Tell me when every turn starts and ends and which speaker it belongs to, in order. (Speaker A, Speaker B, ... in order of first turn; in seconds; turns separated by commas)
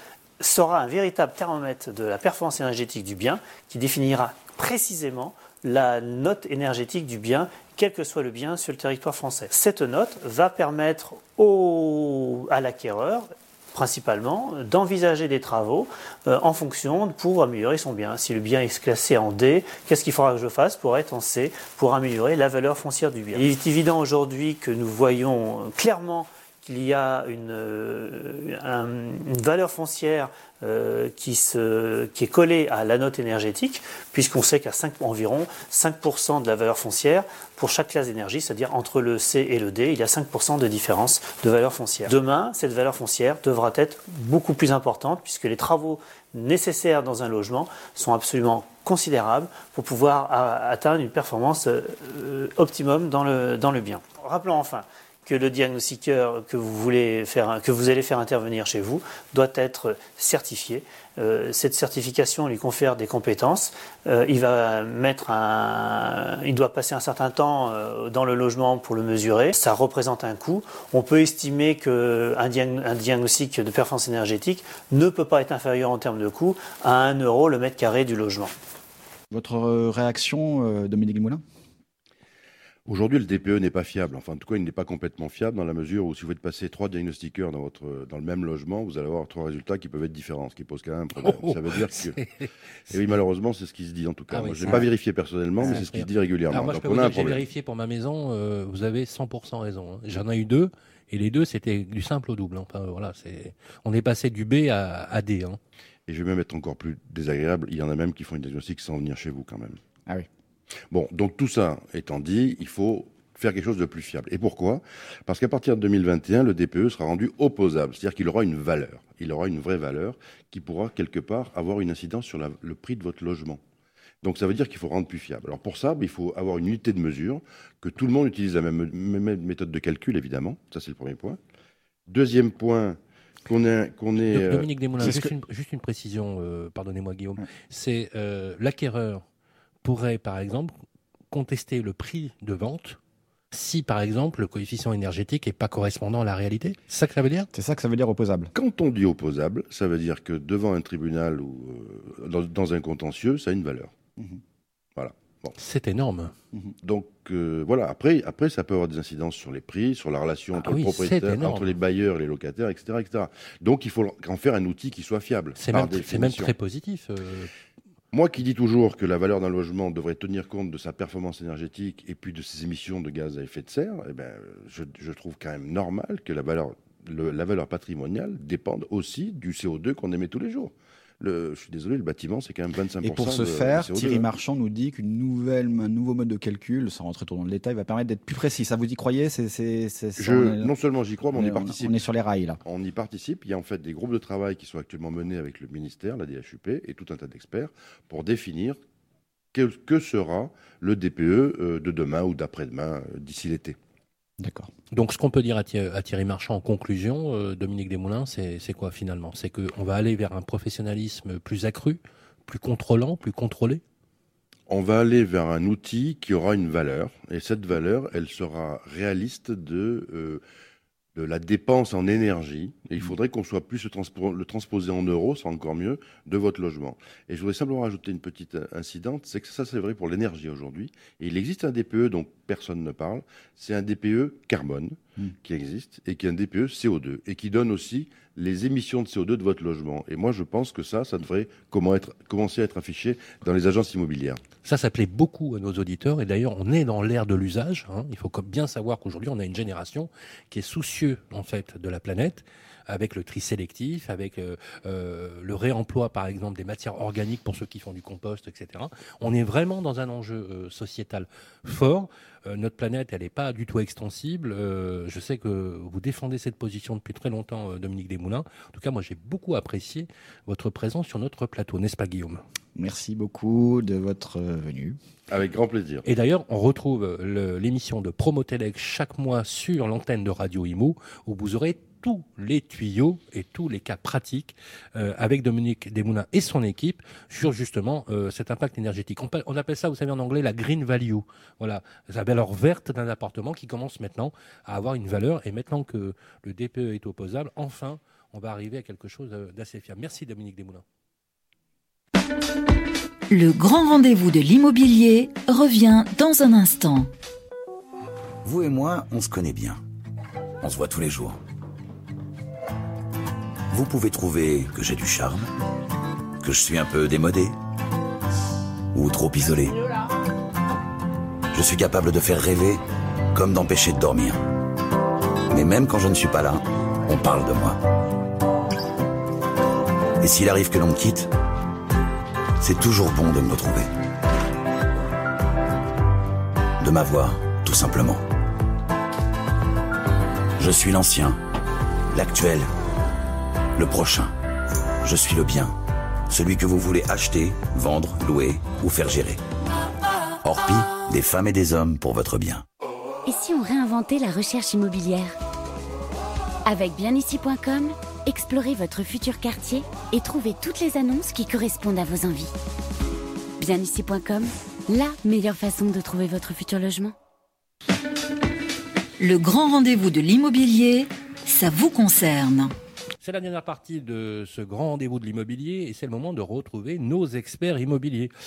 Speaker A: 0.4-78.5, Speaker B: 79.3-81.4, Speaker C: 82.9-92.2, Speaker D: 91.2-92.5, Speaker C: 92.9-97.4, Speaker D: 94.3-94.8, Speaker D: 95.6-105.6, Speaker C: 106.1-109.8, Speaker C: 110.9-123.6, Speaker C: 124.2-131.4, Speaker C: 132.1-135.2, Speaker D: 134.2-139.2, Speaker B: 135.0-135.3, Speaker D: 139.8-140.7, Speaker D: 141.3-143.0, Speaker D: 143.5-147.5, Speaker B: 147.5-148.5, Speaker C: 148.5-153.9, Speaker C: 155.0-155.5, Speaker D: 155.6-156.3, Speaker C: 156.8-166.5, Speaker D: 160.6-161.7, Speaker D: 165.6-167.5, Speaker C: 168.1-184.3, Speaker B: 183.0-190.7, Speaker C: 190.2-192.0, Speaker B: 191.3-192.6, Speaker C: 192.6-198.8, Speaker C: 199.5-203.8, Speaker B: 204.4-204.7, Speaker D: 204.9-213.8, Speaker C: 214.7-220.4, Speaker C: 221.1-244.4, Speaker D: 244.6-272.4, Speaker B: 272.7-275.0, Speaker C: 275.3-276.0, Speaker D: 276.0-300.8, Speaker E: 303.3-307.1, Speaker F: 308.4-309.8, Speaker F: 310.6-311.4, Speaker F: 313.7-315.5, Speaker F: 316.4-317.5, Speaker F: 318.9-319.8, Speaker F: 321.5-322.8, Speaker F: 323.3-324.4, Speaker F: 325.5-327.8, Speaker F: 330.2-331.3, Speaker F: 332.6-333.9, Speaker F: 336.8-338.2, Speaker F: 340.6-341.4, Speaker F: 342.1-342.7, Speaker F: 343.8-344.3, Speaker F: 345.0-345.8, Speaker F: 346.3-349.4, Speaker F: 350.4-352.6, Speaker G: 353.2-355.3, Speaker G: 356.6-362.5, Speaker G: 363.6-367.1, Speaker E: 369.2-372.7, Speaker D: 373.2-378.3